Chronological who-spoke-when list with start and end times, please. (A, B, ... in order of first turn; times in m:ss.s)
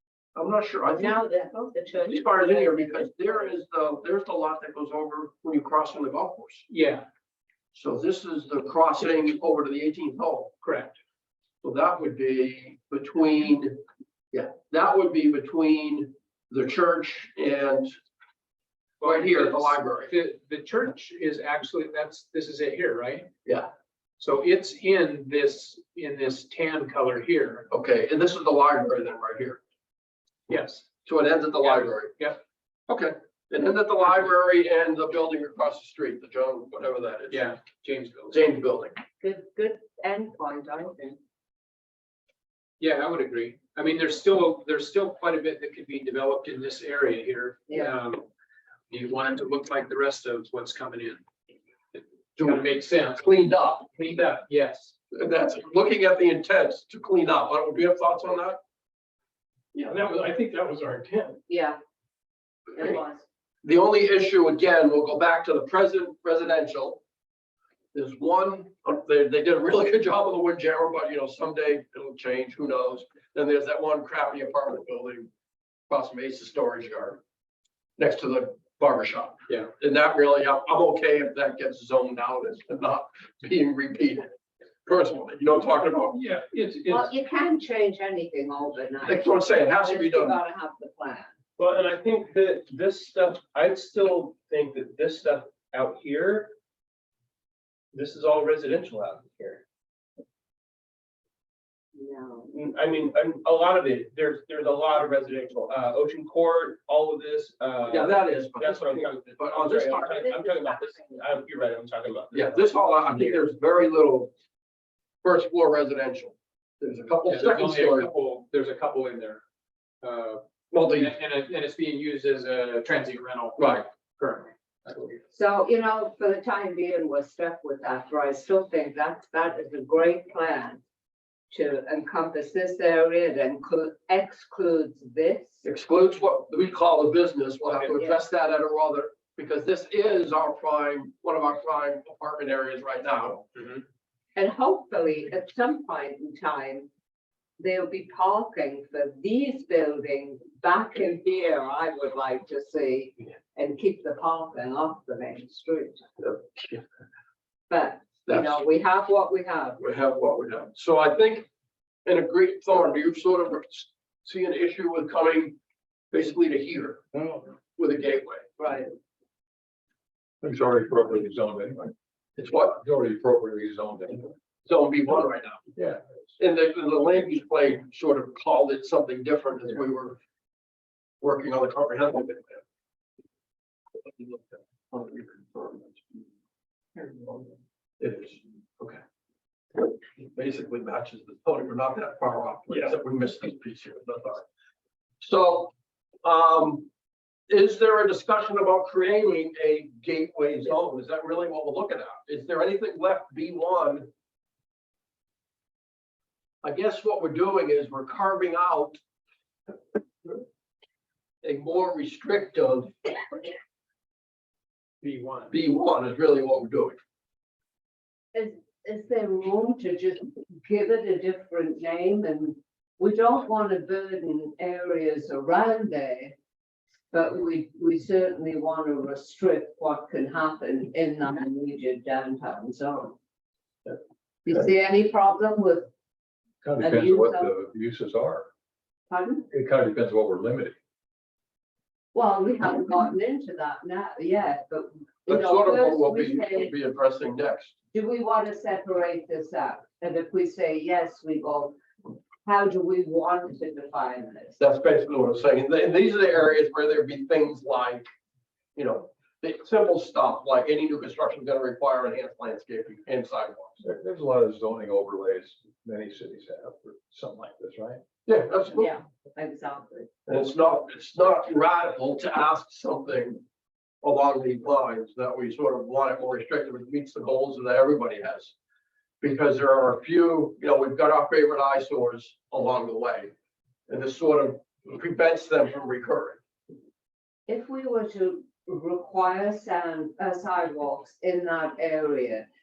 0:00.4-0:01.2 A
0:00.9-0:03.5 B
0:02.1-0:06.6 A
0:06.7-0:07.0 C
0:07.7-0:10.5 A
0:10.6-0:11.0 C
0:11.6-0:13.8 A
0:14.3-0:17.9 A
0:19.0-0:23.3 C
0:19.0-0:20.1 A
0:23.4-0:23.7 A
0:24.2-0:27.7 C
0:27.7-0:29.6 A
0:30.5-0:30.9 C
0:31.0-0:32.2 A
0:31.6-0:32.4 C
0:32.9-0:37.5 A
0:37.3-0:38.4 C
0:38.3-0:39.0 A
0:39.2-0:41.2 B
0:42.8-0:48.2 C
0:47.7-0:47.9 B
0:48.9-0:51.2 C
0:51.9-0:53.2 C
0:53.1-0:53.9 A
0:53.9-0:54.9 C
0:55.1-0:58.6 A
0:59.7-1:01.4 D
1:01.5-1:01.8 B
1:02.8-1:03.2 B
1:03.6-1:07.0 A
1:07.9-1:15.3 A
1:15.9-1:17.2 A
1:18.0-1:24.3 A
1:24.8-1:26.2 A
1:26.0-1:27.0 C
1:26.8-1:31.3 B
1:29.0-1:30.4 A
1:31.6-1:36.5 D
1:37.9-1:39.6 D
1:41.9-1:42.5 B
1:42.5-1:47.9 D
1:47.7-1:48.1 C
1:47.9-1:50.3 A
1:48.5-1:52.4 D
1:48.9-1:52.5 C
1:50.3-1:51.2 B
1:52.3-1:54.3 A
1:55.2-1:58.1 A
1:57.2-1:59.4 C
2:00.0-2:05.2 C
2:00.7-2:01.1 A
2:03.6-2:03.8 A
2:05.3-2:10.8 B
2:11.5-2:15.6 B
2:15.6-2:23.4 A
2:23.6-2:23.8 C
2:24.3-2:26.9 B
2:27.6-2:36.0 B
2:36.2-2:36.8 A
2:37.7-2:39.8 B
2:38.2-2:38.6 A
2:39.8-2:41.5 A
2:42.0-2:45.6 A
2:46.1-2:47.0 A
2:47.2-2:47.4 E
2:47.8-2:48.5 A
2:48.6-2:48.9 B
2:50.4-2:51.9 E
2:52.4-2:52.8 A
2:52.7-2:54.3 E
2:54.6-2:55.7 A
2:55.8-2:56.0 E
2:56.4-3:00.2 A
3:01.2-3:02.6 A
3:04.0-3:06.2 A
3:08.0-3:09.0 A
3:09.8-3:14.4 A
3:12.7-3:13.0 D
3:15.2-3:15.7 A
3:16.2-3:16.9 A
3:17.5-3:24.1 A
3:26.6-3:29.0 A
3:31.4-3:33.3 A
3:35.0-3:35.5 C
3:35.5-3:37.0 A
3:38.3-3:46.3 B
3:47.1-3:53.2 B
3:54.4-3:55.9 B
3:56.6-3:58.5 E
3:56.8-3:57.5 B
3:59.1-3:59.4 B
3:59.5-4:00.7 E
4:02.1-4:06.7 B
4:05.3-4:07.7 A
4:07.9-4:11.8 B
4:12.4-4:14.6 B
4:14.6-4:18.1 A
4:18.8-4:23.8 A
4:23.8-4:28.0 E
4:28.2-4:28.9 A
4:28.7-4:30.1 B
4:30.3-4:33.4 A
4:34.0-4:38.5 A
4:39.2-4:43.3 A
4:43.9-4:46.4 A
4:47.5-4:52.5 B